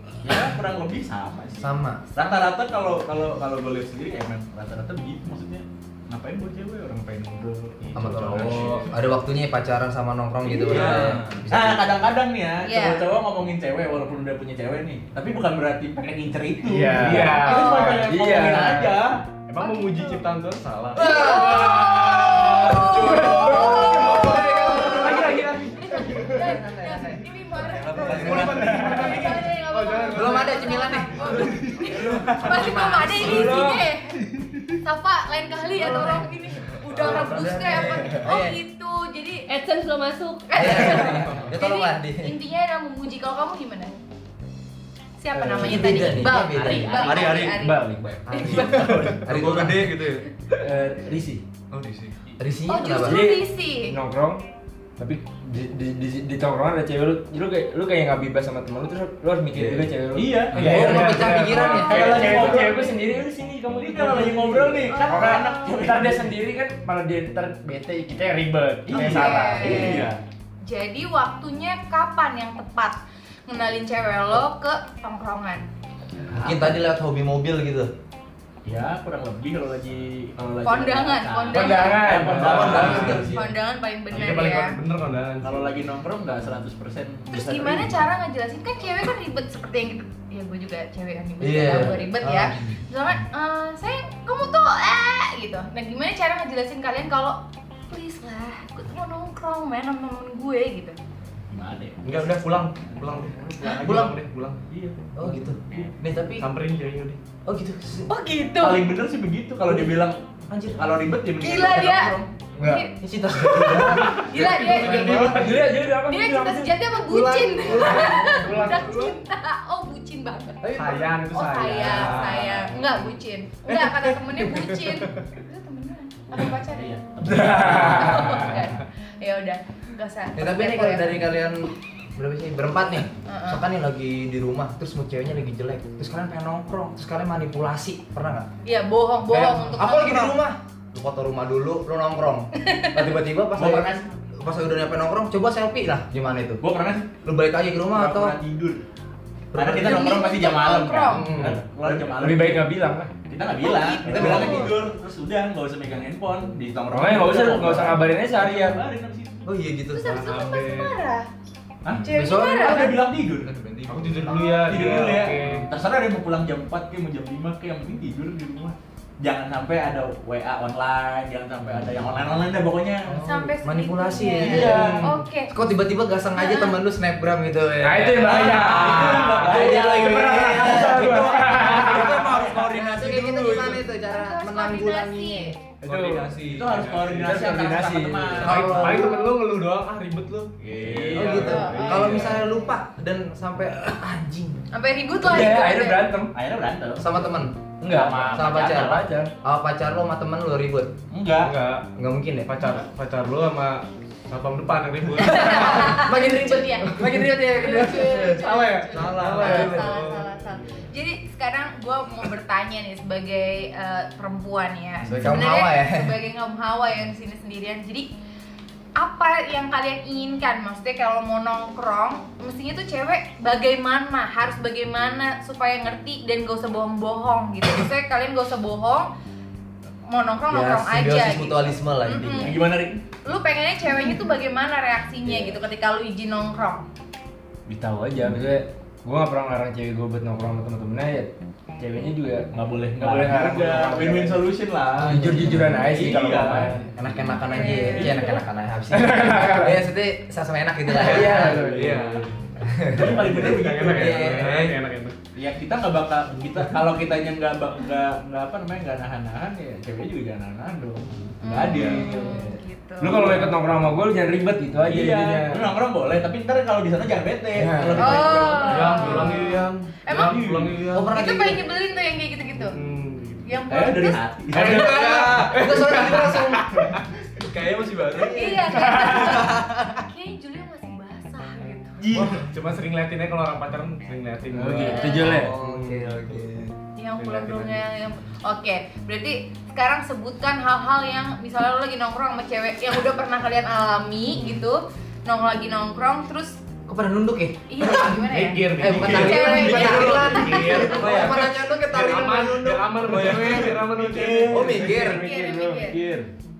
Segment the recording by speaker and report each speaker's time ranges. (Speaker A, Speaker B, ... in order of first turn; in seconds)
Speaker A: 0.2-8.9, 10.5-19.2, 22.7-24.2, 28.1-29.3, 31.9-32.4, 46.5-47.4, 48.5-49.3, 59.5-62.9, 63.8-66.3, 68.8-70.2, 76.4-76.6, 78.6-83.5, 85.4-88.1, 101.5-102.2, 102.9-103.3, 104.7-105.0, 108.6-110.2, 110.7-112.2, 121.9-122.6, 126.3-128.6, 143.5-144.0, 146.6-147.2, 147.9-148.8, 149.5-152.7, 153.3-159.5, 161.8-163.5, 164.4-173.2, 174.4-175.1, 178.1-182.7, 186.2-188.8, 190.6-192.3, 196.3-197.3, 197.8-199.1, 201.1-201.6, 232.3-233.0, 242.5-246.9, 247.9-248.3, 252.9-254.4, 255.3-262.4, 264.8-269.4, 270.1-270.8, 273.7-275.2, 282.0-282.4, 298.8-300.9, 303.2-304.9
Speaker B: 1.6-2.0, 7.9-11.9, 20.9-25.4, 26.1-29.0, 30.1-33.6, 35.7-36.3, 36.9-38.6, 40.5-42.3, 45.4-47.5, 48.3-50.0, 52.4-53.2, 60.6-62.6, 69.0-70.0, 76.3-77.9, 82.3-83.3, 91.4-92.7, 103.8-104.1, 105.2-106.4, 107.5-108.1, 110.5-110.9, 111.6-115.5, 117.1-118.7, 120.7-121.4, 130.3-138.5, 139.3-146.6, 147.2-148.3, 149.5-150.2, 151.1-151.6, 154.1-154.8, 159.4-160.2, 162.0-163.0, 173.1-185.6, 188.4-189.1, 191.1-194.7, 197.0-197.6, 198.3-200.9, 201.9-202.5, 205.3-210.0, 215.1-216.1, 230.5-232.6, 246.9-251.7, 252.6-254.6, 270.9-271.6, 274.6-276.9, 278.1-279.8, 285.1-286.7, 296.9-302.9, 304.5-305.3
Speaker C: 8.4-8.8, 16.9-18.3, 19.5-26.4, 27.9-30.8, 60.6-62.2, 82.1-83.3, 84.1-85.6, 102.0-104.6, 106.4-107.2, 113.7-115.7, 118.4-119.0, 120.6-123.0, 124.4-124.7, 160.0-160.9, 163.9-165.7, 174.6-175.0, 180.7-181.2, 186.0-187.2, 188.4-192.5, 201.4-201.9, 202.4-206.0, 207.8-210.9, 251.0-252.3, 253.0-255.2, 263.1-263.6, 268.6-271.2, 272.6-273.4, 274.5-277.0, 282.1-286.4, 287.2-287.8, 298.1-306.3
Speaker D: 8.5-8.7, 10.6-11.5, 27.8-28.5, 36.6-37.2, 41.1-41.5, 47.0-47.5, 49.0-50.6, 51.7-52.2, 60.5-60.8, 163.3-164.4, 181.3-183.8, 185.9-187.2, 190.9-191.2, 251.8-252.3, 261.7-262.0, 274.6-276.2, 277.4-279.6, 303.0-303.8
Speaker E: 12.6-13.1, 17.3-18.1, 19.6-20.2, 20.9-34.2, 34.8-44.0, 45.2-49.1, 52.6-54.0, 61.5-62.9, 64.9-65.8, 68.9-70.1, 70.6-75.6, 80.6-84.8, 87.3-101.0, 108.0-108.9, 111.4-115.3, 116.0-120.7, 121.3-126.9, 127.7-131.3, 133.2-133.6, 138.6-140.4, 142.6-143.2, 149.8-151.3, 153.5-154.8, 159.9-161.3, 162.0-163.0, 164.3-164.7, 173.2-175.5, 176.3-176.8, 183.3-185.6, 188.8-189.4, 191.4-192.6, 194.7-196.1, 205.2-218.1, 218.9-229.1, 230.1-236.8, 247.2-248.4, 261.4-263.3, 268.0-270.4, 271.1-272.8, 273.4-274.2, 278.1-282.0, 284.8-285.3, 286.9-296.6, 297.7-301.2, 304.9-306.0
Speaker F: 16.6-19.0, 33.1-33.9, 45.3-46.1, 47.3-48.9, 50.6-51.4, 53.0-54.4, 55.0-69.9, 81.5-83.2, 115.2-116.9, 117.6-119.1, 127.2-128.6, 151.4-153.1, 156.9-158.8, 174.6-174.9, 177.8-182.3, 185.9-186.1, 187.1-188.9, 195.2-196.3, 197.8-199.3, 237.7-246.8, 248.9-249.9, 250.9-252.0, 263.0-265.7, 267.5-268.3, 284.5-285.5